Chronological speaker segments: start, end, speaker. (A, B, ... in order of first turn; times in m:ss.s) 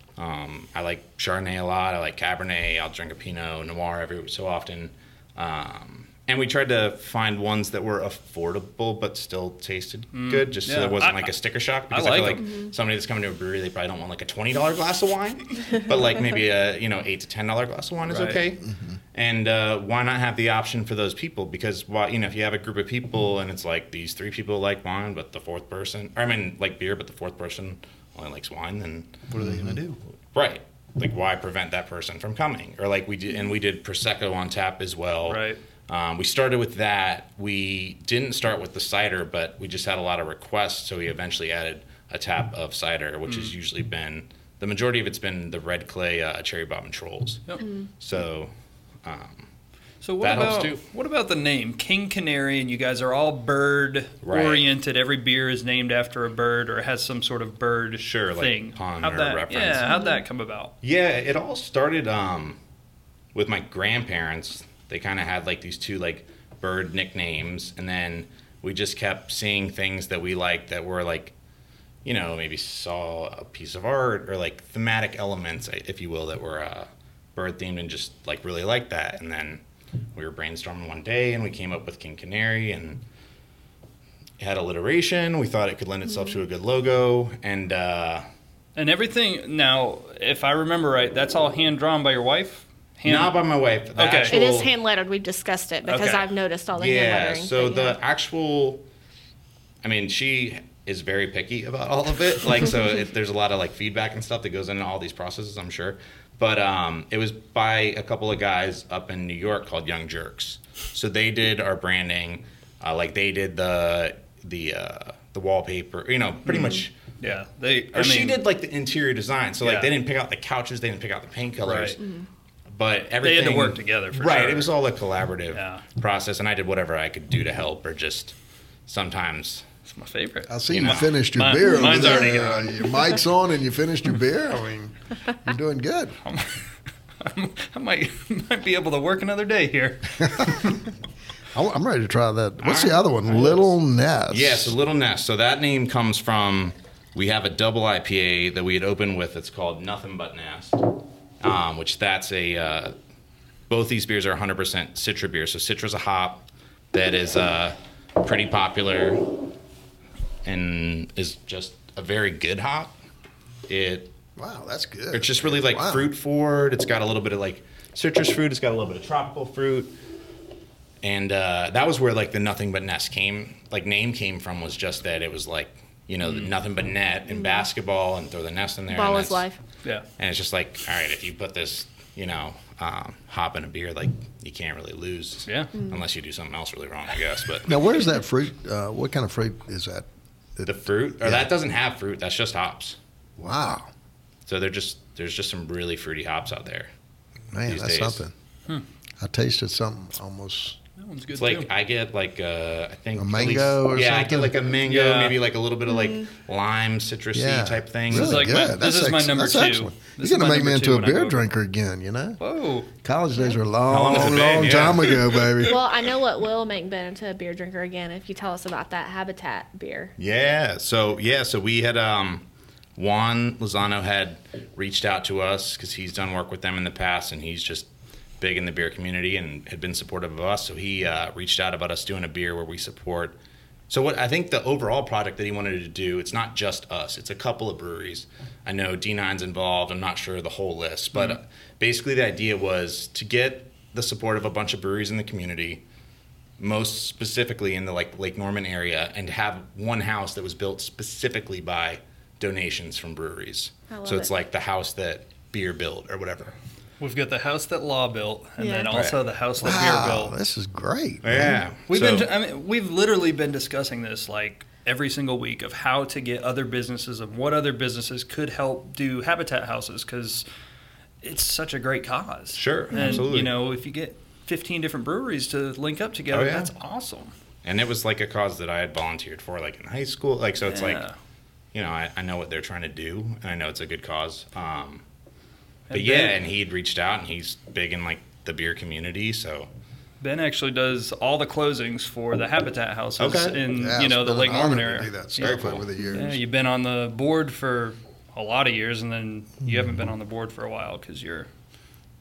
0:00.2-0:29.3 A
0:10.1-0:11.3 B
0:11.9-0:12.4 B
0:12.4-0:12.7 C
0:18.0-0:18.4 B
0:18.6-0:19.0 D
0:29.3-0:30.0 B
0:29.4-0:29.8 D
0:30.3-0:47.5 A
0:35.3-0:35.6 B
0:43.3-0:43.5 B
0:47.6-0:47.8 C
0:48.0-0:48.5 A
0:49.0-0:49.5 A
0:50.0-1:00.7 B
0:50.2-0:50.8 A
0:54.2-0:54.6 A
0:58.0-0:59.9 A
0:59.8-1:00.2 C
1:00.8-1:02.6 A
1:03.3-1:11.3 A
1:12.0-1:19.6 A
1:20.1-1:23.0 A
1:24.4-1:28.2 A
1:28.8-1:33.4 B
1:33.0-1:34.7 A
1:33.9-1:34.4 B
1:34.3-1:38.0 C
1:35.8-1:36.2 B
1:36.8-1:38.8 A
1:39.8-1:56.9 A
1:56.4-1:58.4 B
1:57.9-2:02.0 A
1:59.6-1:59.9 B
2:01.6-2:02.0 B
2:02.0-2:02.2 C
2:02.7-2:08.3 A
2:03.2-2:04.7 B
2:05.5-2:05.8 B
2:08.9-2:09.6 A
2:09.8-2:13.0 B
2:10.5-2:16.2 D
2:10.7-2:11.2 A
2:11.6-2:12.2 C
2:16.2-2:16.6 B
2:17.2-2:20.8 B
2:20.2-2:20.8 D
2:21.5-2:24.7 D
2:22.6-2:23.6 A
2:24.3-2:30.8 A
2:31.4-2:32.9 A
2:33.7-2:39.4 A
2:40.4-2:42.9 A
2:43.7-2:44.1 A
2:44.4-2:46.1 D
2:45.1-2:49.9 A
2:51.0-2:59.5 A
2:57.3-2:57.6 C
2:58.9-2:59.6 C
3:00.2-3:08.0 A
3:05.4-3:05.7 B
3:07.7-3:11.5 D
3:10.6-3:13.0 A
3:13.4-3:13.9 D
3:14.4-3:16.9 A
3:17.5-3:18.3 D
3:17.6-3:18.2 A
3:19.2-3:20.8 D
3:21.0-3:21.7 B
3:21.4-3:28.6 A
3:23.2-3:24.6 D
3:24.9-3:25.4 B
3:25.8-3:26.3 C
3:27.3-3:32.4 D
3:28.1-3:31.4 B
3:32.4-3:32.9 B
3:33.0-3:35.8 D
3:33.9-3:35.6 A
3:35.6-3:40.1 C
3:40.2-3:42.4 A
3:43.0-3:47.9 A
3:48.4-3:53.4 A
3:53.9-4:05.8 A
4:01.1-4:01.4 B
4:06.6-4:16.5 A
4:13.9-4:14.3 C
4:17.0-4:20.4 B
4:18.6-4:19.0 C
4:18.9-4:19.2 A
4:19.6-4:21.6 D
4:21.2-4:22.3 A
4:21.9-4:30.4 B
4:31.2-4:37.3 B
4:32.5-4:33.6 A
4:32.9-4:33.2 C
4:36.3-4:36.7 A
4:37.6-4:41.0 A
4:40.6-4:41.2 B
4:41.7-4:45.0 A
4:45.9-4:46.4 B
4:45.9-4:49.7 A
4:50.2-4:55.5 B
4:53.2-4:53.6 A
4:53.7-4:56.4 D
4:55.4-4:55.8 A
4:56.1-5:01.5 B
4:59.6-5:00.0 D